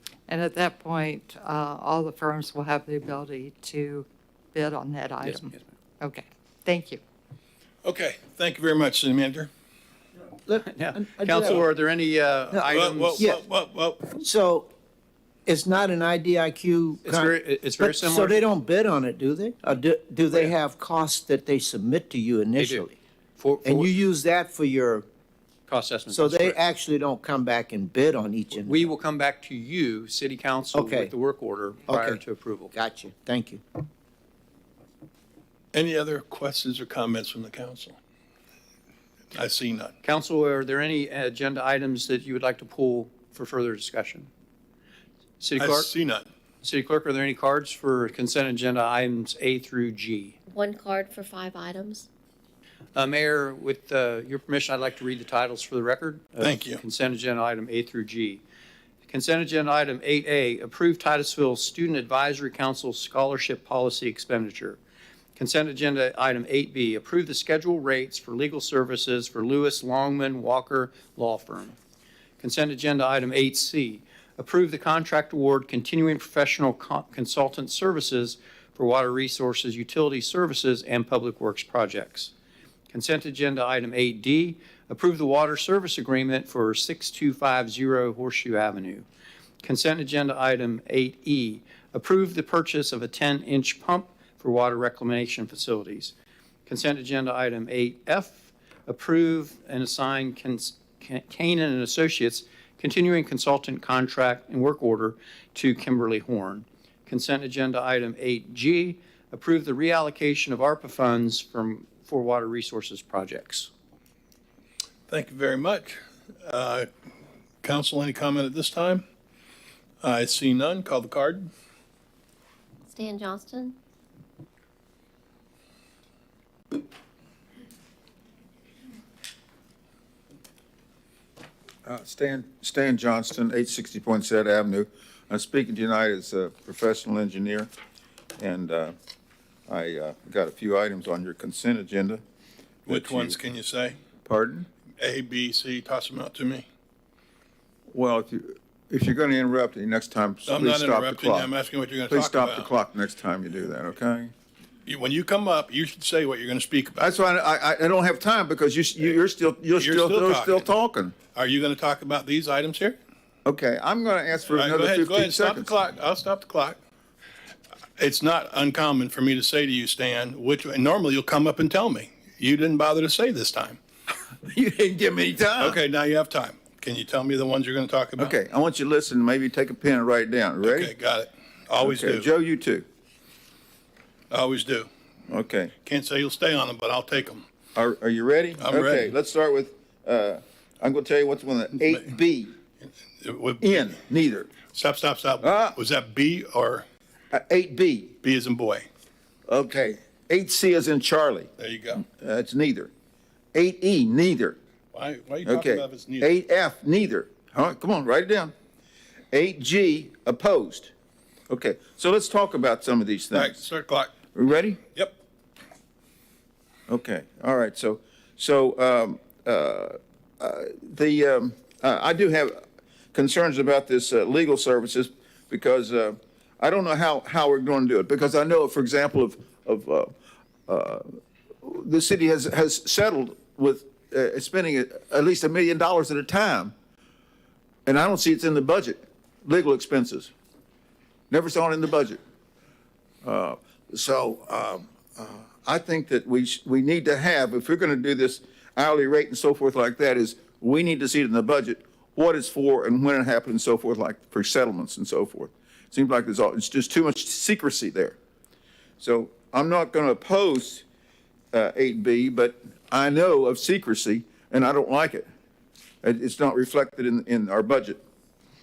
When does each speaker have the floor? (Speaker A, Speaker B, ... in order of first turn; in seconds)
Speaker A: 0.3-7.0
Speaker B: 5.2-5.6, 10.7-13.3, 17.0-18.4, 22.6-22.9, 23.4-23.9, 25.7-26.6, 28.6-32.7, 40.0-44.3, 45.4-45.9, 46.6-50.4, 53.0-58.4, 59.1-64.8, 65.4-71.8, 72.4-82.3, 82.9-89.1, 89.6-96.1, 96.7-113.7
Speaker C: 7.8-9.5, 12.7-14.1, 35.7-38.0, 39.4-39.9, 45.6-46.3, 56.4-56.8, 115.1-116.9, 117.6-119.0, 120.0-121.5, 142.9-144.0, 145.0-146.7, 150.5-152.7, 154.9-157.1, 159.8-160.7, 161.3-163.0, 164.5-166.8, 168.0-173.8, 175.6-178.3, 180.6-182.3, 184.3-184.9, 185.8-187.4, 188.6-189.1, 193.2-194.0, 194.7-196.9, 198.2-198.9, 201.6-202.1, 204.9-206.3, 213.3-214.1
Speaker D: 10.5-11.7, 14.1-14.7, 15.5-23.0, 23.6-25.1, 26.1-28.9, 30.7-31.1, 31.9-32.2, 32.7-33.6
Speaker E: 50.5-52.1, 122.9-123.8
Speaker F: 131.8-137.7, 138.4-138.9, 139.7-142.2, 142.8-143.4, 144.2-144.7, 147.9-151.5, 152.1-154.3, 157.0-161.2, 163.4-165.7, 174.4-175.8, 178.2-180.9, 181.8-182.9, 185.3-185.7, 187.8-192.5, 193.6-194.6, 195.4-195.8, 197.3-198.2, 199.5-201.5, 202.0-202.9, 203.5-204.6, 205.4-208.5, 209.3-210.9, 211.5-213.6, 214.3-214.8, 216.9-222.6, 223.1-230.1, 230.7-231.1, 231.6-236.7, 237.9-240.3, 241.3-242.2, 243.2-258.2, 259.0-260.9, 261.5-265.3, 266.0-268.0